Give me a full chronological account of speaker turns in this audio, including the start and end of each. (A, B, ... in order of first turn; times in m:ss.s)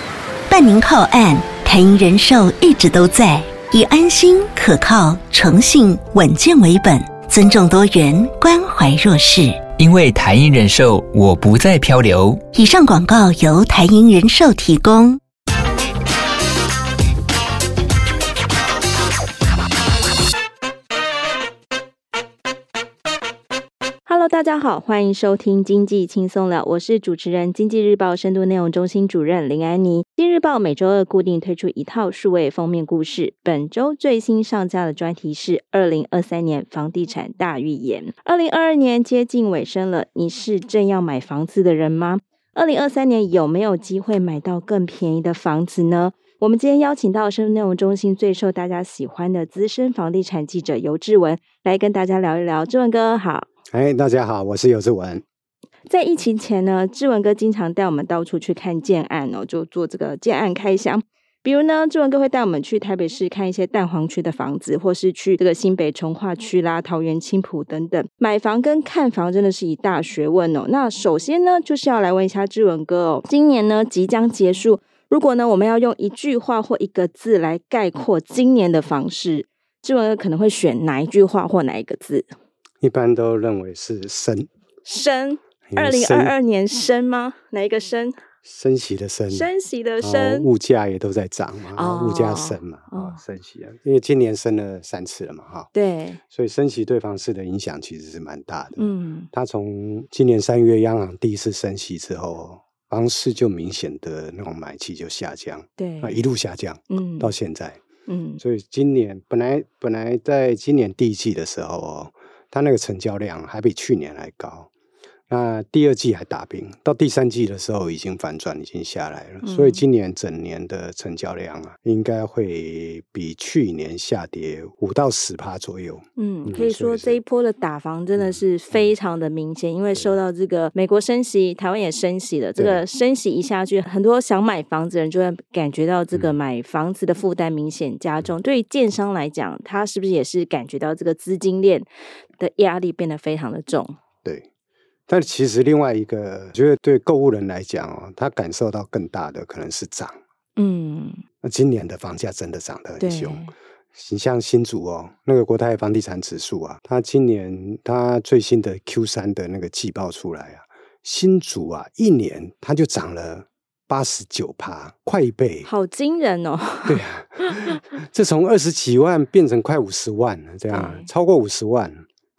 0:00.5-0:09.6 A
0:09.8-0:12.4 B
0:12.5-0:15.2 A
0:24.1-0:53.5 C
0:53.7-0:55.2 D
0:55.9-1:22.3 C
1:22.8-1:24.5 D
1:24.8-1:28.2 C
1:25.7-1:26.3 D
1:28.4-1:29.5 D
1:29.3-1:30.5 C
1:30.0-1:35.7 D
1:31.8-1:33.2 C
1:35.7-1:36.2 C
1:36.3-1:47.8 D
1:38.8-1:39.3 C
1:45.8-1:46.2 C
1:46.9-1:47.3 C
1:48.1-1:48.4 C
1:48.4-1:54.7 D
1:55.3-2:07.2 D
1:59.4-1:59.8 C
2:06.2-2:21.9 C
2:08.2-2:08.9 D
2:22.4-2:24.0 C
2:25.1-2:30.2 D
2:30.6-2:31.2 C
2:31.4-2:45.7 D
2:33.0-2:33.5 C
2:45.6-2:47.8 C
2:46.9-2:52.0 D
2:50.7-2:51.1 C